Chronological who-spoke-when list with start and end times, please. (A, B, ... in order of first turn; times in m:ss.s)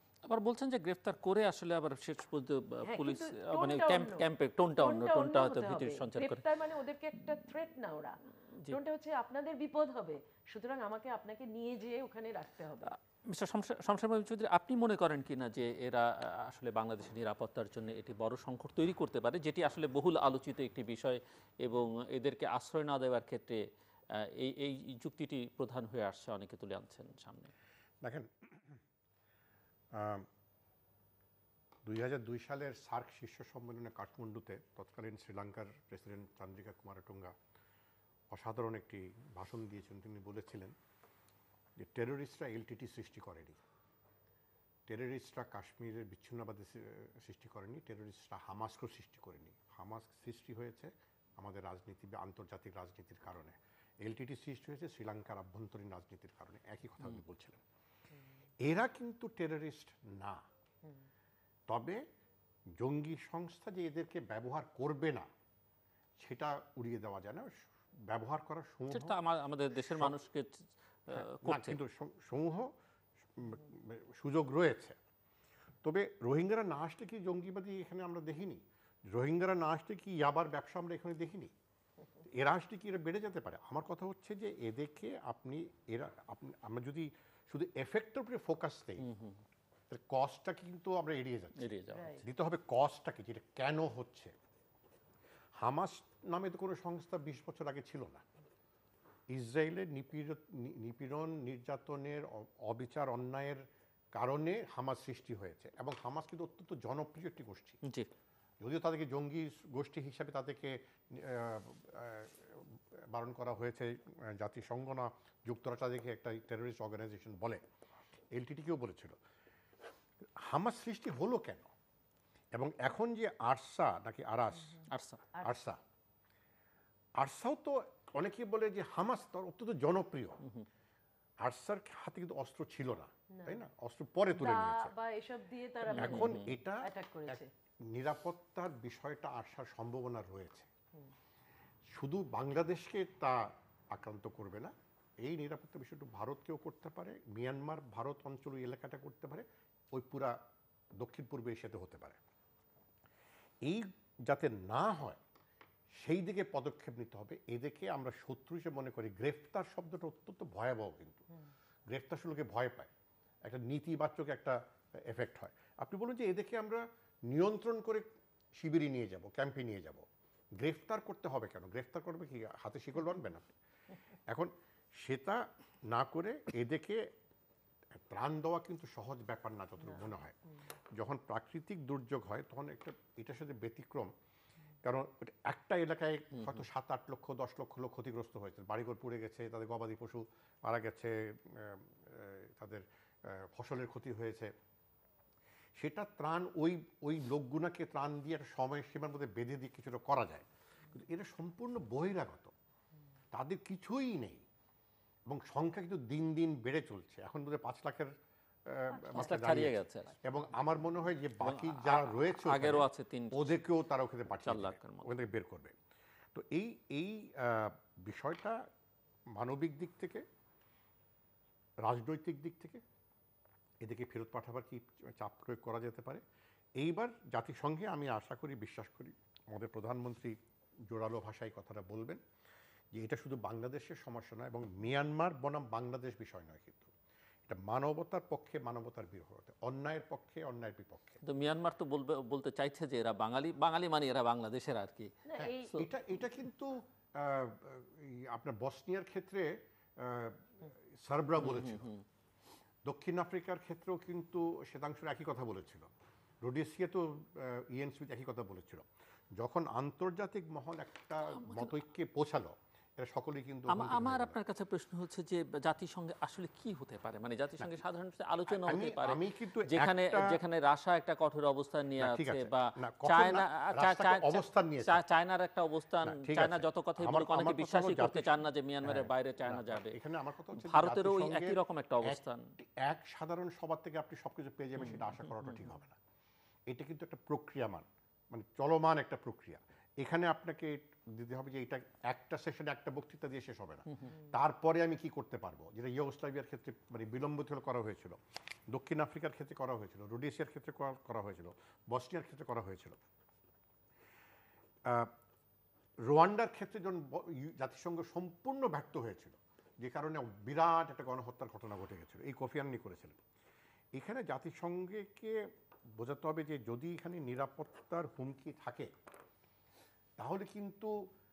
0:00.2-0:06.4 A
0:02.8-0:12.9 B
0:13.3-0:23.6 A
0:24.2-0:27.5 A
0:28.0-0:28.8 C
0:29.9-0:30.3 C
0:31.8-0:37.3 C
0:38.3-0:40.7 C
0:41.8-0:43.6 C
0:44.9-0:57.6 C
0:58.6-1:00.4 C
1:01.7-1:02.0 C
1:02.8-1:05.3 C
1:06.2-1:09.2 C
1:08.9-1:11.8 A
1:09.8-1:10.1 C
1:11.1-1:12.7 C
1:13.4-1:15.0 C
1:15.8-1:21.5 C
1:22.3-1:29.0 C
1:29.0-1:29.4 A
1:29.9-1:34.3 C
1:31.6-1:32.2 A
1:31.9-1:32.2 B
1:35.6-1:38.2 C
1:39.3-1:43.6 C
1:44.1-1:47.8 C
1:48.6-1:57.6 C
1:58.3-1:59.2 C
2:00.4-2:01.7 C
2:02.5-2:04.8 C
2:04.9-2:05.2 A
2:05.3-2:05.6 B
2:05.4-2:05.8 C
2:07.2-2:10.4 C
2:11.4-2:14.9 C
2:13.3-2:13.6 B
2:14.3-2:17.5 B
2:15.9-2:16.5 A
2:15.9-2:20.7 C
2:21.9-2:30.3 C
2:31.0-2:32.2 C
2:33.6-2:35.2 C
2:36.0-2:41.2 C
2:41.9-2:42.9 C
2:43.4-2:50.0 C
2:50.6-2:53.5 C
2:54.3-2:57.1 C
2:57.9-3:00.4 C
3:00.9-3:04.1 C
3:04.8-3:14.5 C
3:06.3-3:06.6 A
3:15.8-3:22.5 C
3:23.3-3:24.4 C
3:25.2-3:28.1 C
3:28.6-3:35.7 C
3:29.1-3:30.1 A
3:31.4-3:33.6 A
3:34.4-3:35.1 A
3:36.3-3:38.6 C
3:39.3-3:40.2 C
3:41.8-3:42.8 C
3:43.8-3:46.2 C
3:46.8-3:50.3 C
3:50.9-3:52.2 C
3:52.9-3:56.9 C
3:57.4-4:01.2 C
4:01.2-4:05.1 A
4:05.3-4:05.8 B
4:05.4-4:11.9 C
4:11.4-4:12.0 A
4:12.8-4:15.9 C
4:16.4-4:24.4 C
4:21.3-4:21.7 A
4:23.7-4:40.0 A
4:28.5-4:30.4 C
4:32.0-4:35.0 C
4:36.0-4:46.0 C
4:40.6-4:42.5 A
4:44.8-4:45.6 A
4:46.7-4:58.2 C
4:58.7-5:03.0 C
5:04.9-5:05.1 C
5:06.0-5:13.2 C
5:13.9-5:15.4 C
5:15.9-5:18.9 C
5:20.2-5:20.9 C